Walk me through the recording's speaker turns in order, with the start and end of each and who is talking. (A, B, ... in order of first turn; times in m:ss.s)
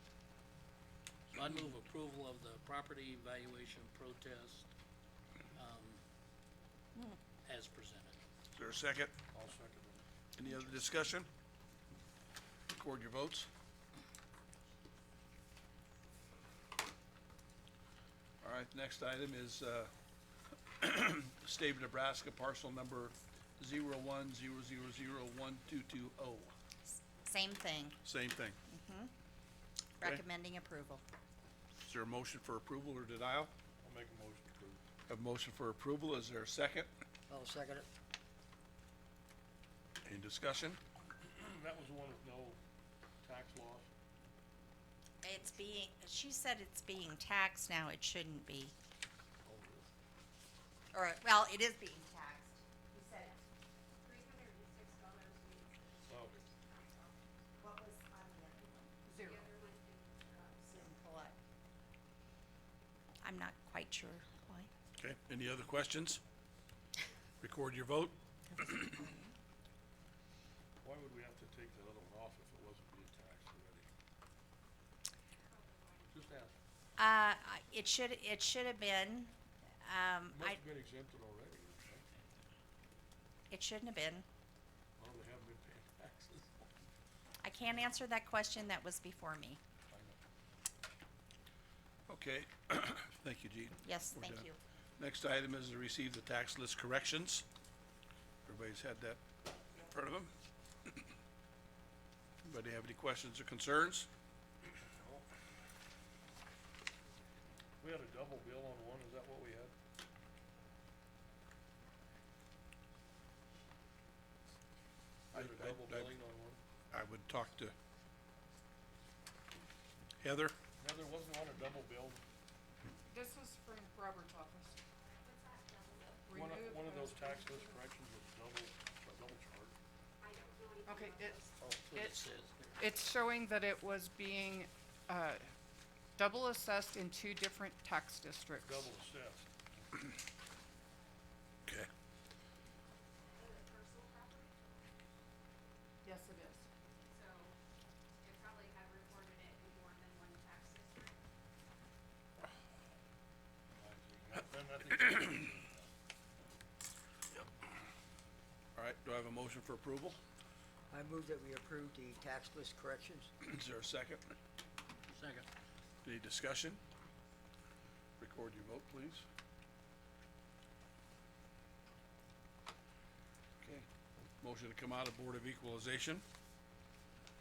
0:01.3-0:04.6 A
0:05.6-0:05.8 A
0:07.4-0:08.2 A
0:08.5-0:09.1 B
0:09.3-0:10.0 C
0:10.4-0:11.3 B
0:10.4-0:10.9 D
0:12.7-0:13.5 B
0:18.4-0:19.9 B
0:20.8-0:26.5 B
0:26.9-0:28.0 D
0:28.0-0:28.6 B
0:28.7-0:29.1 D
0:30.0-0:31.0 D
0:31.7-0:33.5 B
0:33.8-0:34.8 C
0:35.1-0:36.9 B
0:37.3-0:37.9 E
0:40.0-0:40.8 B
0:41.2-0:42.6 C
0:43.2-0:43.9 C
0:45.2-0:48.7 D
0:49.4-0:49.9 C
0:50.9-0:53.4 D
0:54.0-0:57.6 F
0:56.1-0:56.4 C
0:57.6-0:59.0 D
0:59.0-0:59.4 G
0:59.1-1:00.9 F
1:00.6-1:01.4 D
1:03.2-1:04.7 D
1:05.0-1:06.2 B
1:07.4-1:09.1 B
1:08.5-1:09.3 D
1:10.8-1:13.9 C
1:15.5-1:16.1 F
1:16.1-1:16.6 C
1:17.0-1:19.3 D
1:19.8-1:20.6 D
1:20.3-1:22.0 C
1:23.5-1:24.2 D
1:25.0-1:26.5 C
1:27.4-1:29.6 D
1:29.9-1:30.2 C
1:32.1-1:34.4 B
1:33.8-1:34.6 D
1:35.0-1:37.4 B
1:38.4-1:39.2 B
1:39.8-1:40.3 B
1:42.4-1:44.1 B
1:44.8-1:45.2 C
1:47.8-1:49.7 C
1:55.3-1:56.6 C
1:55.3-1:56.1 B
1:56.9-1:57.7 B
2:00.2-2:00.6 B
2:00.8-2:02.2 C
2:03.1-2:04.8 G
2:05.0-2:06.3 F
2:06.2-2:07.8 G
2:06.3-2:09.8 C
2:10.2-2:11.7 F
2:10.8-2:12.2 G
2:11.6-2:12.8 A
2:12.8-2:15.5 G
2:16.2-2:18.8 G
2:18.6-2:19.5 C
2:23.3-2:24.9 F
2:26.0-2:26.7 G
2:27.1-2:27.6 F
2:28.2-2:31.2 F
2:33.7-2:35.9 C
2:38.8-2:40.2 B
2:40.9-2:43.3 E
2:43.4-2:44.2 B
2:46.0-2:46.8 B
2:48.2-2:49.2 B
2:54.4-2:56.2 B